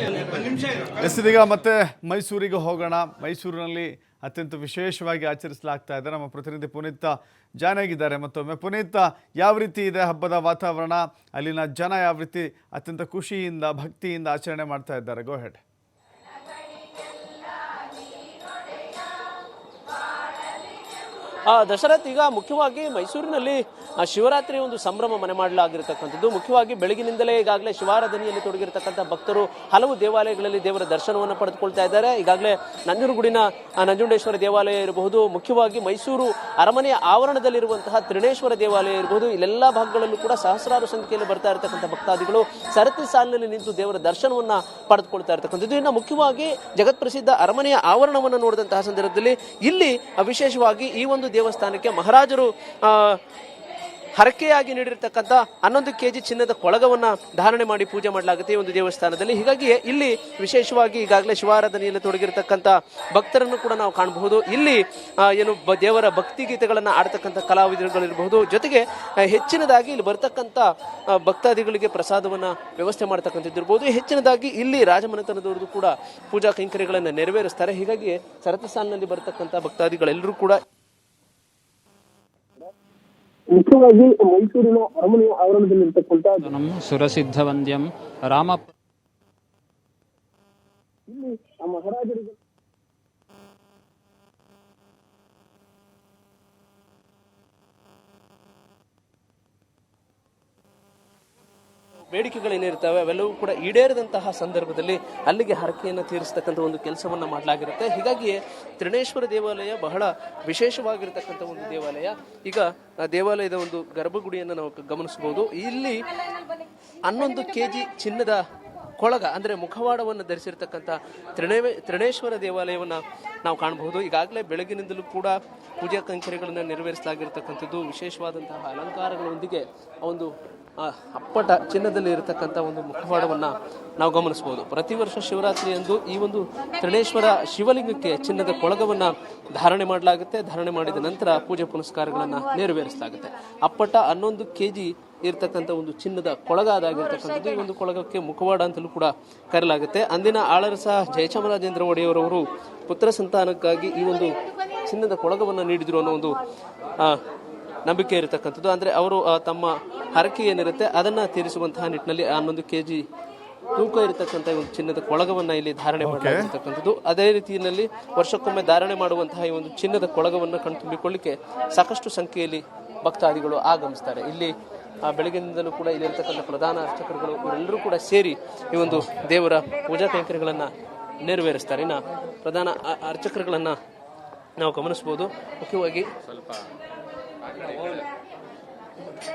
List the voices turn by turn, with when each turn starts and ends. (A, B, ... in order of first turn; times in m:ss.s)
0:00.9-0:15.6 A
0:21.5-0:53.2 B
0:54.2-1:20.6 B
1:23.5-1:26.4 C
1:26.5-1:28.7 D
1:31.1-1:32.4 C
1:42.1-1:56.0 B
1:57.0-1:58.4 B
1:59.0-2:34.3 B
2:34.9-2:36.4 B
2:37.8-2:43.0 B
2:43.8-2:54.5 B
2:46.0-2:46.5 A
2:55.0-3:00.7 B
3:01.2-3:03.8 B
3:04.6-3:06.1 B